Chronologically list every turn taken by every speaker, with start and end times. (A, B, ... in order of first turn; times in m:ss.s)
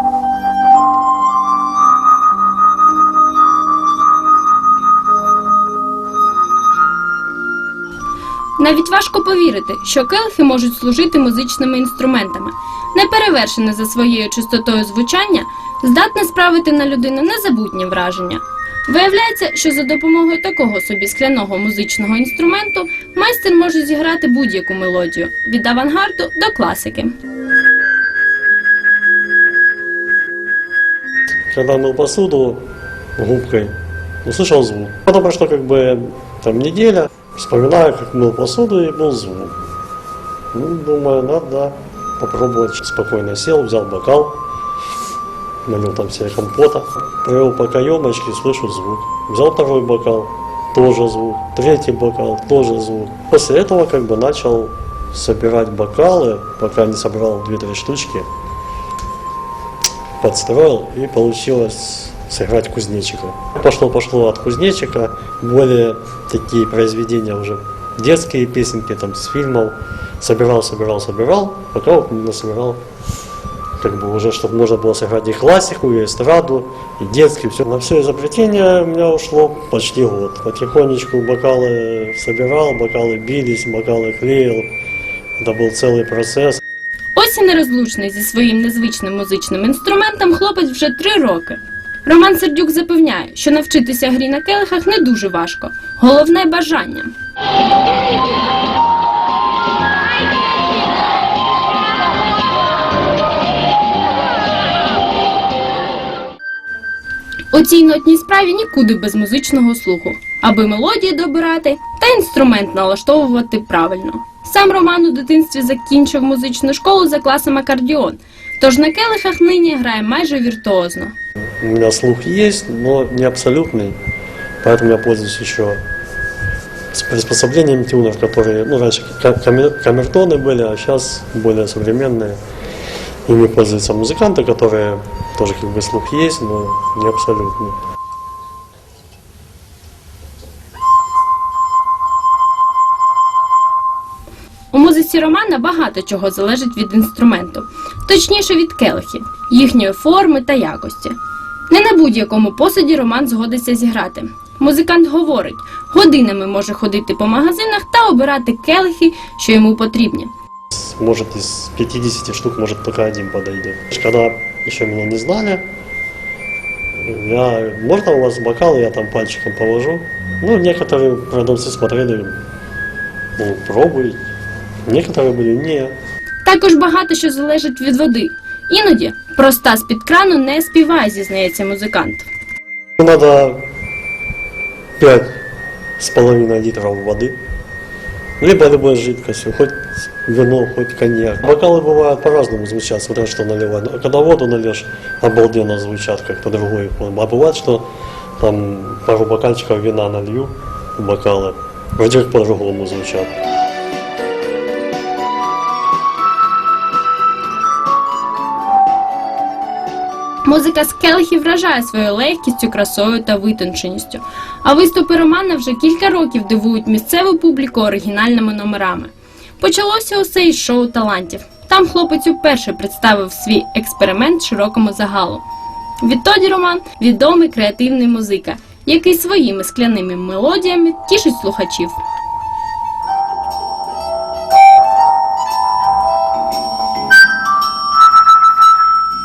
0:08.6-0:27.2 A
0:31.5-0:32.6 B
0:33.2-0:39.6 B
0:40.5-0:44.4 B
0:45.6-0:58.3 B
1:00.2-1:12.8 B
1:13.8-1:24.7 B
1:25.4-1:26.6 B
1:27.2-1:37.1 A
1:47.5-2:01.1 A
2:01.6-2:04.0 B
2:04.6-2:05.8 B
2:06.9-2:12.4 B
2:13.3-2:17.8 B
2:24.7-2:31.2 A
2:31.7-2:40.3 A
2:40.7-2:45.6 B
2:47.0-2:52.4 B
2:53.4-2:54.2 B
2:54.8-2:56.0 B
2:56.4-3:02.3 A
3:03.0-3:03.6 B
3:05.0-3:05.4 B
3:06.0-3:07.4 B
3:08.4-3:17.9 B
3:18.4-3:23.4 B
3:30.5-3:45.4 A
3:46.0-3:52.0 A